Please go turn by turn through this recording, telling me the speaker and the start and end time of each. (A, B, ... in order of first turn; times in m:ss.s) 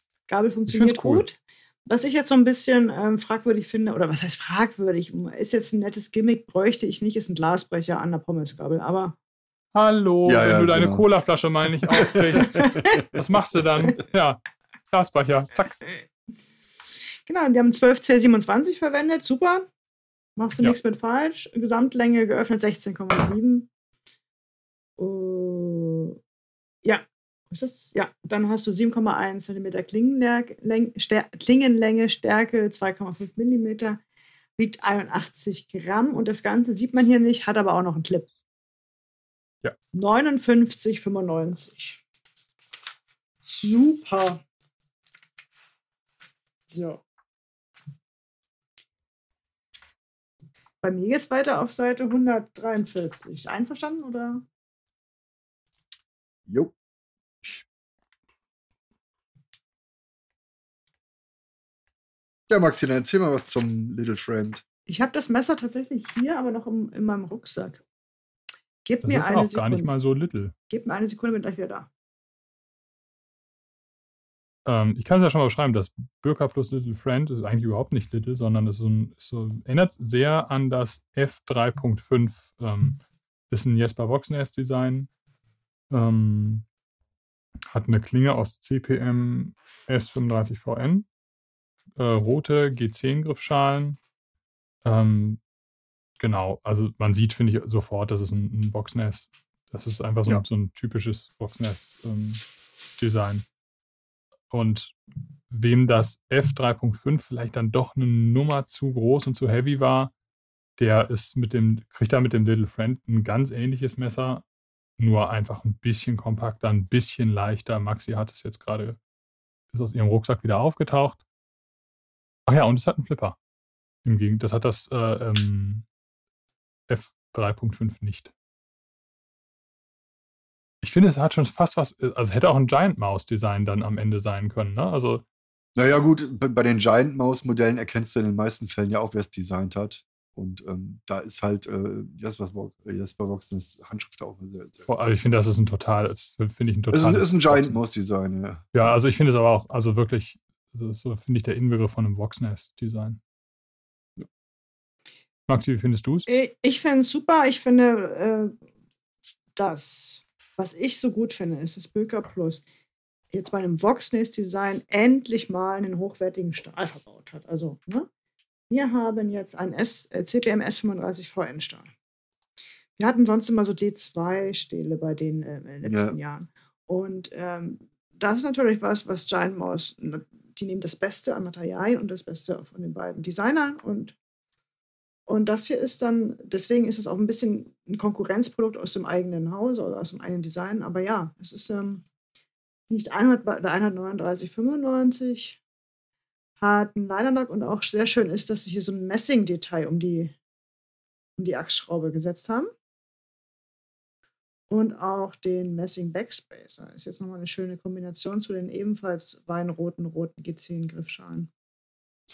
0:00.3-0:09.2 A
0:00.7-0:01.2 B
0:09.7-0:15.8 B
0:10.2-0:11.0 C
0:11.9-0:13.0 C
0:12.4-0:13.0 A
0:17.3-0:19.6 A
0:20.4-0:23.7 A
0:25.0-0:26.2 A
0:26.8-0:34.0 A
0:34.6-0:38.3 A
0:39.9-0:42.0 A
0:43.4-0:44.4 A
0:46.7-0:47.0 A
0:50.8-0:54.4 A
0:56.5-0:56.7 C
1:02.5-1:04.6 C
1:04.9-1:07.8 A
1:08.8-1:09.9 A
1:09.0-1:10.5 B
1:10.7-1:11.9 A
1:14.6-1:25.1 B
1:25.9-1:26.6 B
1:27.7-1:31.1 B
1:32.0-1:34.0 B
1:34.8-1:35.4 B
1:36.2-1:42.4 B
1:43.0-1:43.4 B
1:44.5-1:44.9 B
1:45.5-1:50.1 B
1:50.8-1:54.4 B
1:55.0-1:59.0 B
1:59.7-2:01.2 B
2:02.5-2:03.4 B
2:04.0-2:05.8 B
2:06.9-2:08.3 B
2:10.8-2:15.2 B
2:15.8-2:25.2 C
2:24.9-2:27.8 B
2:26.9-2:28.7 C
2:28.7-2:33.2 B
2:35.5-2:36.3 B
2:36.3-2:38.5 A
2:39.6-2:42.6 A
2:43.3-2:48.1 A
2:48.7-2:51.9 A
2:53.0-3:04.2 A
2:55.8-2:56.1 C
3:05.3-3:12.0 A
3:12.9-3:15.6 A
3:16.6-3:20.4 A
3:21.4-3:22.7 A
3:24.7-3:31.5 A